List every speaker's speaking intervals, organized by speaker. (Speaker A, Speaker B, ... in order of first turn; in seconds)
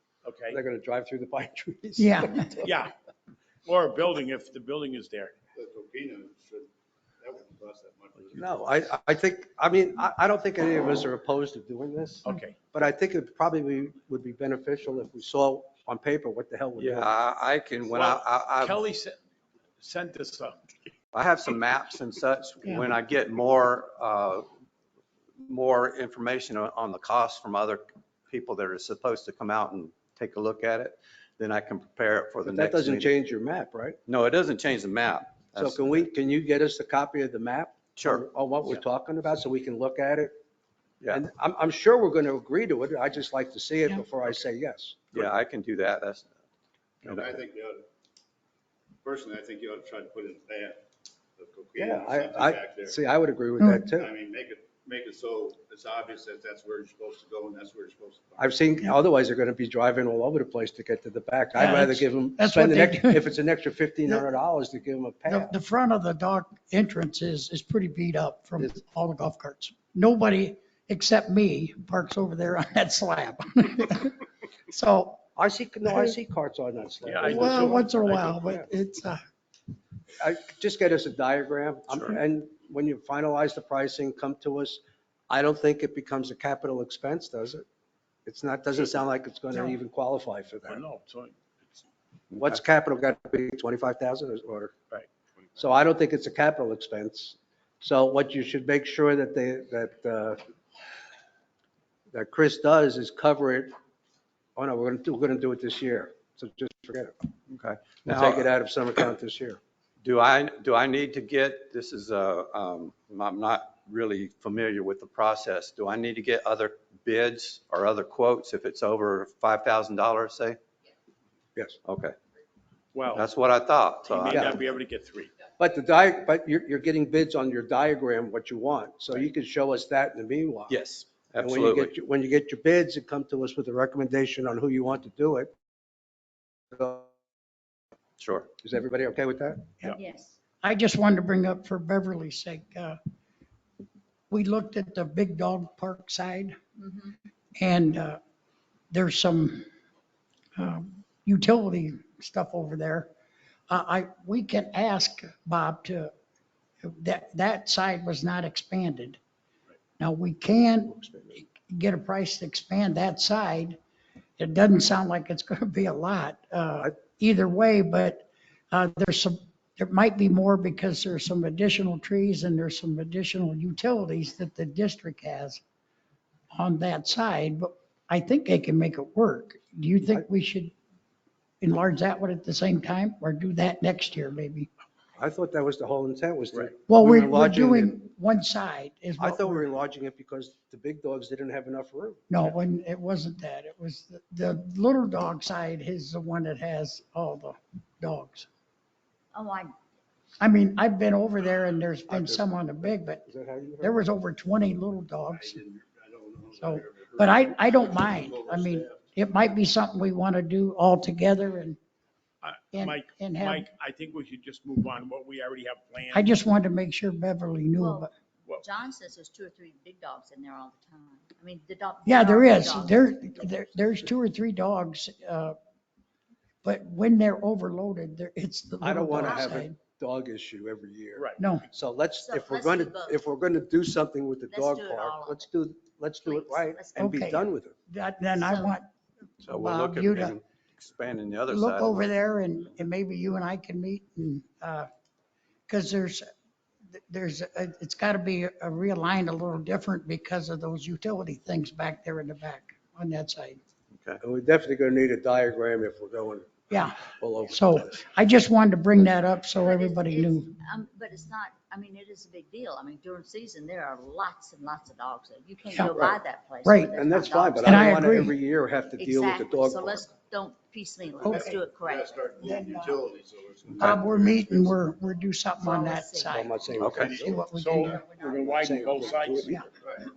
Speaker A: 0.2-0.6, 2.6-2.9, 3.6-5.3, 12.2-12.6, 17.9-19.2, 19.8-20.6, 77.0-78.4, 90.6-91.8, 122.9-123.3, 124.1-125.3, 212.4-216.4, 231.1-231.4, 277.5-279.7
Speaker B: 0.5-2.7, 8.4-17.1, 32.5-34.0, 35.6-40.3, 41.1-45.1, 51.8-54.1, 58.4-65.5, 75.3-78.7, 80.2-87.6, 88.2-90.8, 92.3-94.7, 95.6-100.4, 102.1-103.7, 104.5-107.1, 108.1-109.6, 124.3-124.6, 125.6-130.7, 131.4-135.5, 136.7-137.1, 138.6-139.7, 185.2-188.0, 189.2-192.4, 202.1-204.0, 228.8-237.7, 254.2-257.8, 266.9-270.0, 276.3-277.4, 278.3-279.6
Speaker C: 2.0-2.6, 53.6-54.0, 61.5-63.3, 65.3-74.1, 74.7-75.2, 75.9-76.2, 77.2-79.2, 140.6-143.0, 144.3-146.6, 147.6-148.2, 148.9-149.7, 150.6-153.1, 153.7-156.1, 156.8-159.2, 160.0-163.8, 164.4-175.6, 176.5-180.7, 181.6-184.7, 186.9-189.7, 192.3-198.5, 200.4-203.2, 203.8-205.6, 206.6-211.8, 212.7-213.7, 216.1-218.1, 222.0-225.6, 226.6-229.8, 231.4-231.6, 236.9-238.8, 239.4-240.4, 241.5-244.9, 245.7-246.2, 246.9-253.6, 256.7-260.5, 265.7-266.0, 266.6-267.0, 267.6-268.4, 271.2-271.6, 272.4-273.0, 273.8-278.4, 279.4-279.7
Speaker D: 5.5-6.7, 7.2-8.4, 47.1-47.9, 49.0-50.8, 51.4-53.0, 54.0-58.5, 205.3-209.1, 271.3-274.8
Speaker E: 16.8-18.8, 21.1-24.5, 25.4-33.1, 34.1-36.1, 38.0-38.3, 41.0-41.2, 45.1-46.3, 47.0-47.3, 81.9-82.2, 107.5-108.5, 110.0-120.6, 121.8-122.2, 123.1-124.6, 130.7-131.9, 138.2-138.5, 239.4-242.0, 276.8-277.2
Speaker F: 139.9-140.3, 146.8-147.2, 199.3-199.7, 217.8-223.6, 229.2-229.6, 232.1-233.3, 234.5-235.5, 236.2-237.3, 238.3-238.8, 259.6-268.2, 268.9-272.2, 275.6-276.8